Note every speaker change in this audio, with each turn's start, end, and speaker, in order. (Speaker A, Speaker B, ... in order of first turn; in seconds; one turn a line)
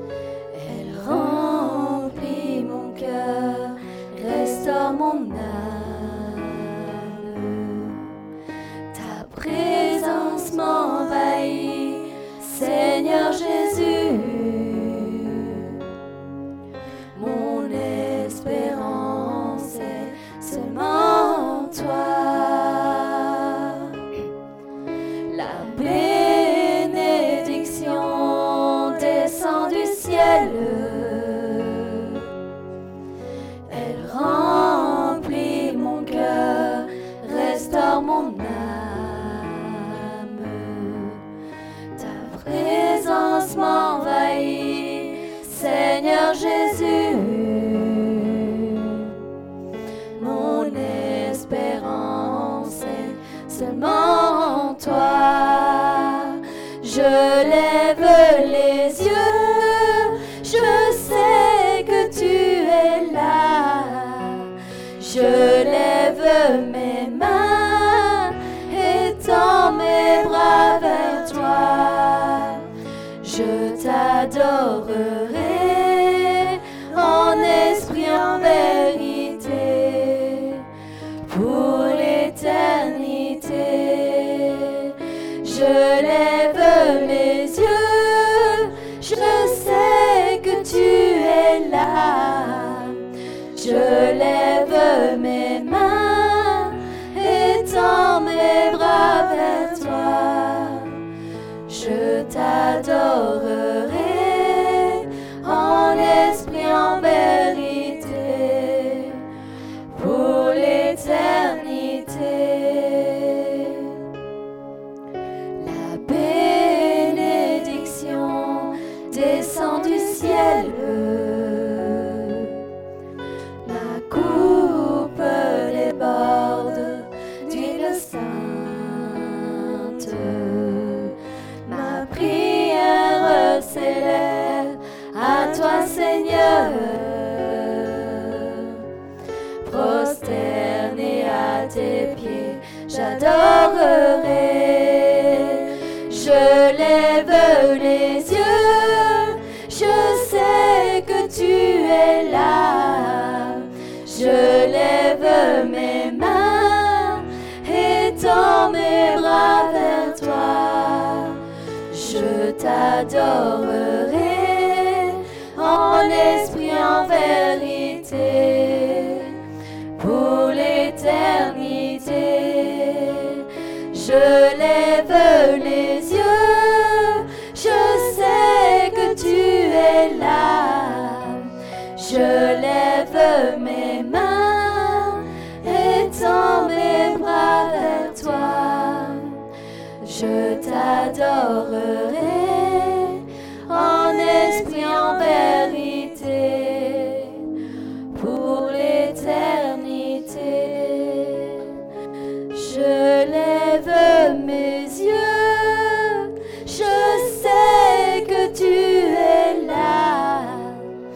Speaker A: 0.5-8.1
Speaker A: 8.9-15.8
Speaker A: 17.1-23.9
Speaker A: 25.3-32.2
Speaker A: 33.7-41.2
Speaker A: 42.0-49.1
Speaker A: 50.2-72.7
Speaker A: 73.2-80.7
Speaker A: 81.2-93.0
Speaker A: 93.5-101.0
Speaker A: 101.7-109.2
Speaker A: 109.9-114.0
Speaker A: 115.6-122.5
Speaker A: 123.6-138.8
Speaker A: 139.6-169.4
Speaker A: 170.0-189.4
Speaker A: 190.0-197.5
Speaker A: 198.1-201.8
Speaker A: 202.5-210.9